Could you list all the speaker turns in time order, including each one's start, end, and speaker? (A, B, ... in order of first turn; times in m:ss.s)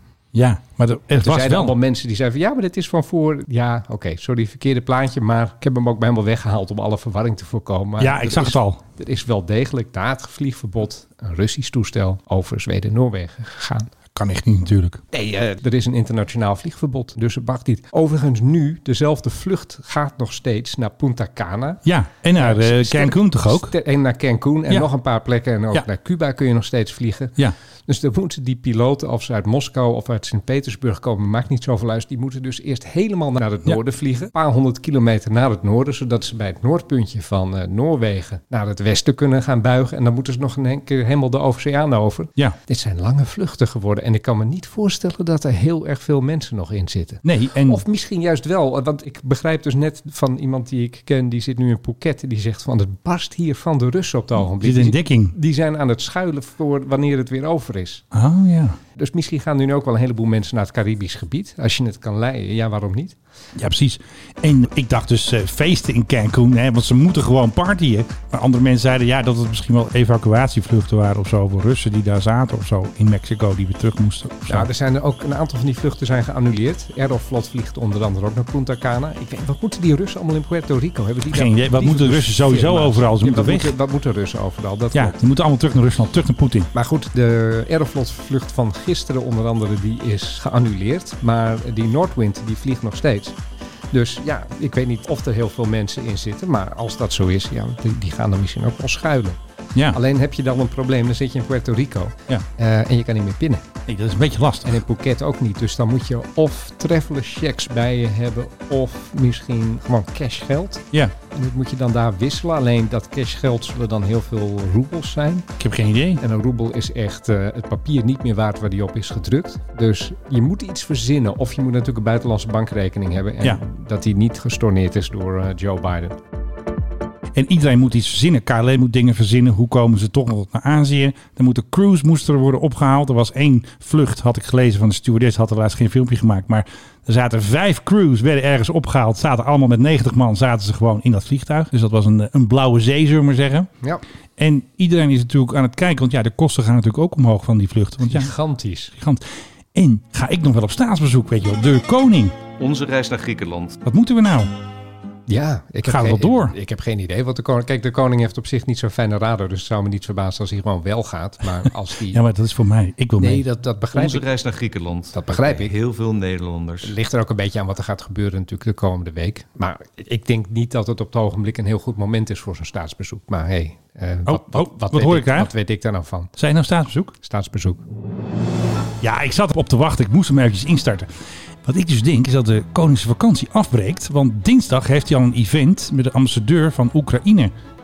0:00.3-0:01.8 A
0:01.2-0:13.9 B
0:08.0-0:08.8 A
0:14.1-0:15.0 A
0:15.1-0:21.8 B
0:21.8-0:23.7 A
0:22.4-0:58.0 B
0:47.2-0:47.8 A
0:54.4-0:55.4 A
0:58.1-0:58.8 A
0:59.0-1:03.2 B
1:03.6-1:14.7 A
1:14.5-1:25.2 B
1:21.3-1:23.8 A
1:24.9-1:26.7 A
1:26.7-1:33.4 B
1:33.9-1:39.4 B
1:39.9-1:43.7 B
1:43.9-1:44.8 A
1:44.6-1:55.5 B
1:55.6-1:56.2 A
1:56.2-2:06.2 B
2:07.3-2:23.7 A
2:24.4-2:28.3 A
2:28.0-2:28.9 B
2:29.0-2:32.4 A
2:32.6-2:33.8 C
2:33.8-2:34.5 A
2:35.3-2:42.2 B
2:35.9-2:36.6 A
2:42.1-2:43.4 A
2:43.2-2:44.3 B
2:43.9-2:46.9 C
2:45.1-2:45.7 B
2:46.8-2:56.3 B
2:54.3-2:55.5 A
2:56.4-2:57.1 A
2:57.2-2:57.8 B
2:59.0-3:01.1 A
3:01.6-3:07.5 A